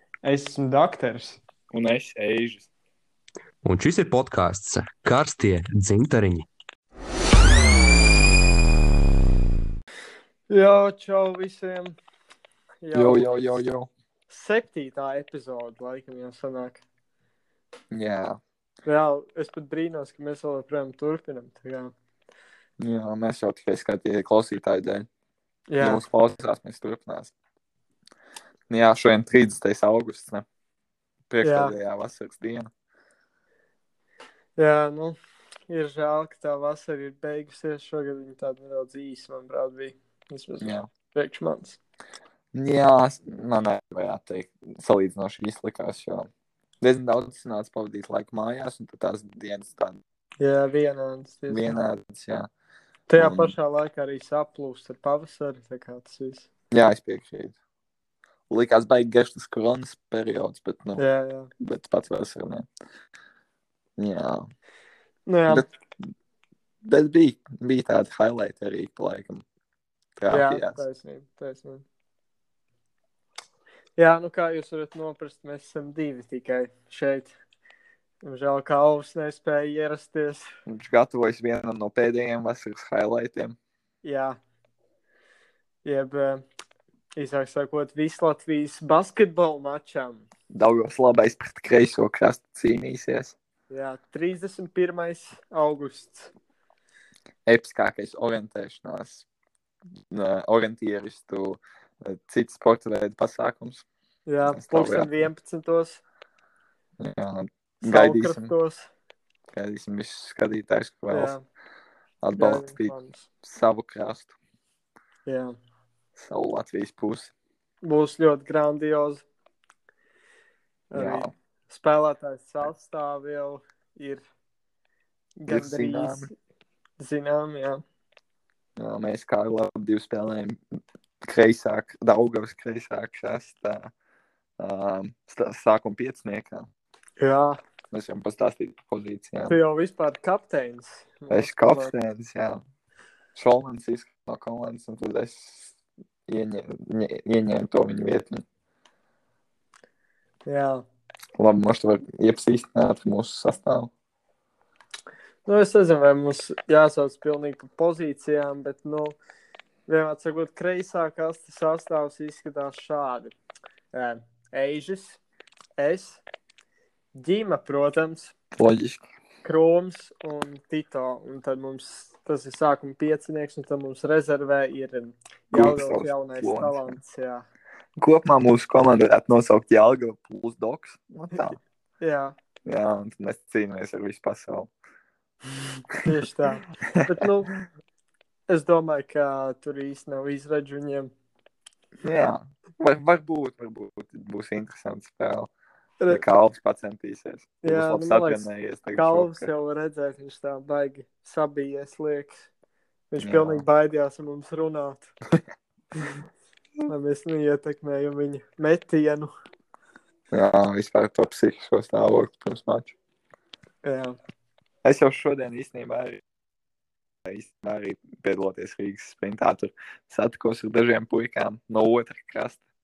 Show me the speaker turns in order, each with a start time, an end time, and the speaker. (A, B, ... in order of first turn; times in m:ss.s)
0:00.2-0:01.4 A
0:01.7-0:02.7 B
0:03.6-0:06.4 C
0:10.5-0:12.0 A
0:12.8-0:13.5 A
0:12.9-0:13.9 B
0:14.3-0:16.8 A
0:17.9-0:18.4 B
0:18.8-0:21.9 A
0:22.8-0:25.1 B
0:25.7-0:26.0 A
0:25.8-0:27.3 B
0:28.7-0:30.4 B
0:31.3-0:32.7 B
0:31.4-0:31.7 A
0:34.6-0:35.2 A
0:35.7-0:41.8 A
0:40.6-0:40.9 B
0:42.5-0:46.3 B
0:46.8-0:50.0 B
0:50.4-0:51.8 A
0:51.5-0:52.5 B
0:53.1-0:56.5 A
0:53.2-0:53.5 B
0:56.7-0:57.6 B
0:58.5-1:01.0 B
1:01.0-1:01.5 A
1:01.6-1:02.7 B
1:04.0-1:04.5 B
1:05.3-1:05.6 A
1:06.8-1:09.4 B
1:10.2-1:10.8 B
1:10.3-1:11.8 A
1:14.0-1:17.3 A
1:18.2-1:20.5 A
1:20.7-1:23.6 B
1:24.0-1:24.4 A
1:25.8-1:26.4 A
1:27.2-1:30.2 A
1:30.5-1:33.3 B
1:33.7-1:36.3 A
1:37.4-1:39.2 B
1:40.1-1:43.8 B
1:44.3-1:46.0 A
1:44.5-1:45.1 B
1:47.0-1:48.5 B
1:47.8-1:48.9 A
1:49.5-1:51.3 B
1:51.1-1:51.4 A
1:52.2-1:54.3 B
1:52.4-1:53.2 A
1:55.2-1:55.5 A
1:56.2-1:57.3 B
1:57.8-1:59.2 A
2:00.9-2:04.2 A
2:00.9-2:01.3 B
2:05.4-2:06.3 A
2:05.5-2:06.3 B
2:07.0-2:07.8 A
2:08.8-2:10.6 B
2:11.2-2:13.9 B
2:14.6-2:16.7 B
2:17.2-2:17.6 A
2:17.9-2:19.5 B
2:19.4-2:21.9 A
2:21.3-2:22.6 B
2:23.3-2:25.7 B
2:26.3-2:28.4 B
2:30.4-2:30.8 A
2:31.4-2:33.9 B
2:35.4-2:39.2 A
2:39.9-2:43.3 A
2:43.9-2:45.2 A
2:45.8-2:46.2 A
2:47.1-2:48.3 A
2:48.6-2:49.0 B
2:49.4-2:57.4 A
2:55.5-2:57.0 B
2:58.0-3:01.6 B
3:01.3-3:02.3 A
3:02.6-3:04.7 B
3:06.0-3:07.5 A
3:08.5-3:11.1 A
3:12.0-3:15.5 B
3:16.1-3:19.5 B
3:17.6-3:22.4 A
3:23.1-3:25.1 A
3:23.2-3:23.6 B
3:26.9-3:29.3 A
3:30.3-3:32.9 B
3:33.8-3:34.2 A
3:34.8-3:36.2 B
3:37.2-3:42.6 B